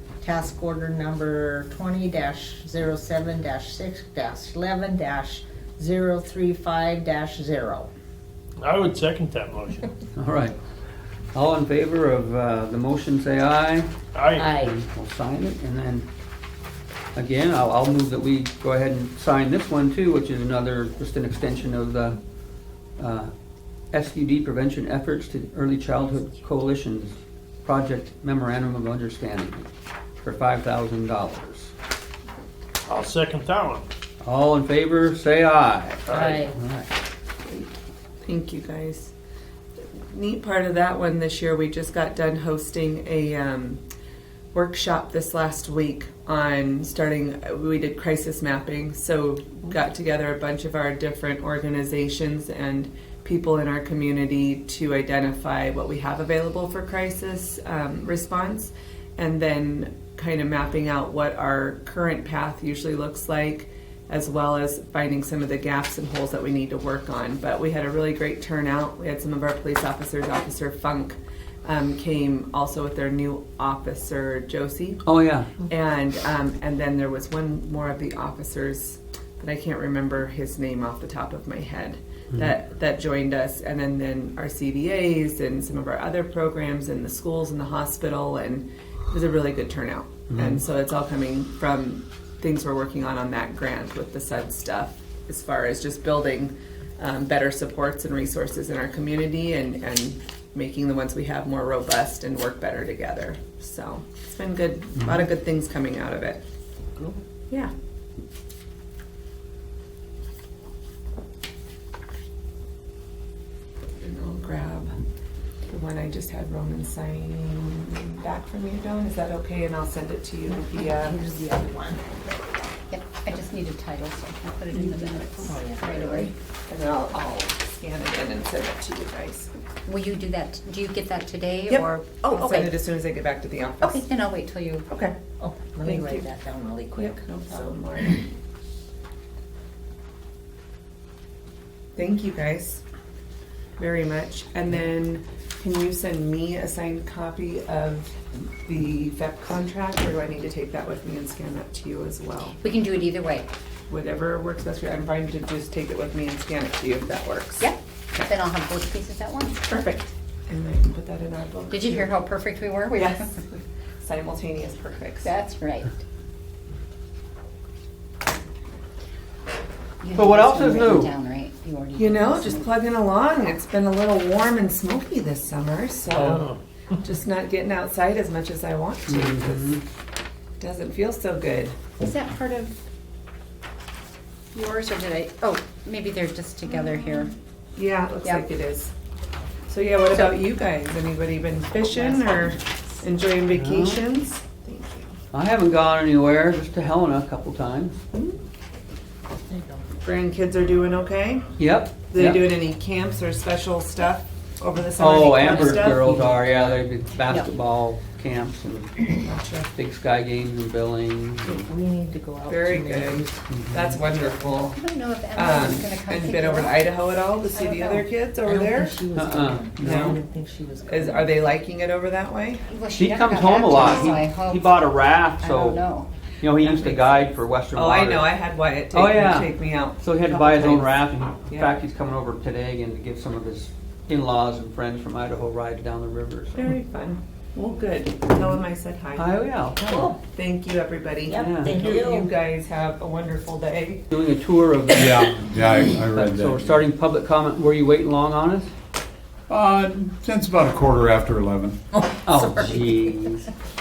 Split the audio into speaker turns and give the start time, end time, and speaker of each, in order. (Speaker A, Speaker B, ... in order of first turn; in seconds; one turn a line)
Speaker A: 0.2-7.9
Speaker B: 8.6-9.9
Speaker C: 10.2-10.6
Speaker C: 11.3-13.9
Speaker B: 14.1-14.6
Speaker A: 14.4-14.7
Speaker C: 14.4-16.1
Speaker C: 17.2-22.2
Speaker C: 23.0-23.3
Speaker C: 23.9-29.7
Speaker C: 30.2-31.7
Speaker B: 32.9-33.9
Speaker C: 34.2-36.9
Speaker B: 36.1-36.4
Speaker A: 36.1-36.5
Speaker D: 37.5-37.7
Speaker D: 38.2-39.1
Speaker D: 40.0-43.8
Speaker D: 44.5-75.0
Speaker C: 75.0-75.5
Speaker D: 75.6-106.4
Speaker C: 90.3-90.6
Speaker D: 114.0-114.9
Speaker D: 115.7-121.2
Speaker A: 120.6-122.2
Speaker E: 122.9-126.3
Speaker D: 124.8-129.5
Speaker A: 125.4-125.9
Speaker E: 129.9-132.8
Speaker D: 131.7-134.1
Speaker E: 133.8-134.8
Speaker D: 134.9-135.2
Speaker A: 135.4-137.8
Speaker D: 135.8-136.3
Speaker D: 136.9-138.3
Speaker D: 141.9-142.8
Speaker D: 143.8-152.6
Speaker E: 152.6-153.5
Speaker D: 153.9-157.7
Speaker E: 157.6-159.6
Speaker D: 159.7-162.2
Speaker E: 161.7-163.4
Speaker D: 162.9-165.3
Speaker E: 165.2-166.0
Speaker E: 170.0-172.8
Speaker C: 170.2-171.1
Speaker D: 172.0-176.5
Speaker B: 176.2-176.6
Speaker D: 177.0-179.7
Speaker C: 179.1-179.8
Speaker D: 180.6-181.8
Speaker E: 182.0-182.7
Speaker E: 184.5-187.3
Speaker D: 186.8-188.9
Speaker D: 189.7-195.1
Speaker C: 193.5-194.0
Speaker C: 195.3-198.0
Speaker A: 199.5-199.8
Speaker D: 200.0-201.5
Speaker C: 201.6-202.5
Speaker D: 202.1-206.5
Speaker C: 205.0-209.2
Speaker D: 209.2-209.7
Speaker C: 209.7-211.7
Speaker A: 211.4-214.6
Speaker D: 212.5-214.8
Speaker C: 213.5-214.0
Speaker E: 214.7-216.9
Speaker D: 215.3-219.0
Speaker E: 217.5-218.1
Speaker A: 218.4-221.4
Speaker C: 219.2-220.2
Speaker D: 219.8-220.2
Speaker D: 220.9-222.7
Speaker E: 222.7-226.1
Speaker C: 222.9-225.8
Speaker C: 226.4-228.3
Speaker D: 226.6-227.2
Speaker D: 227.7-231.8
Speaker C: 228.9-236.6
Speaker D: 236.6-239.4
Speaker C: 239.2-240.2
Speaker A: 239.9-240.2
Speaker D: 240.2-244.0
Speaker A: 241.3-242.3
Speaker C: 241.3-241.9
Speaker C: 244.1-245.4
Speaker F: 244.9-246.8
Speaker C: 246.1-248.7
Speaker F: 249.5-251.8
Speaker A: 251.9-252.9
Speaker C: 252.2-253.5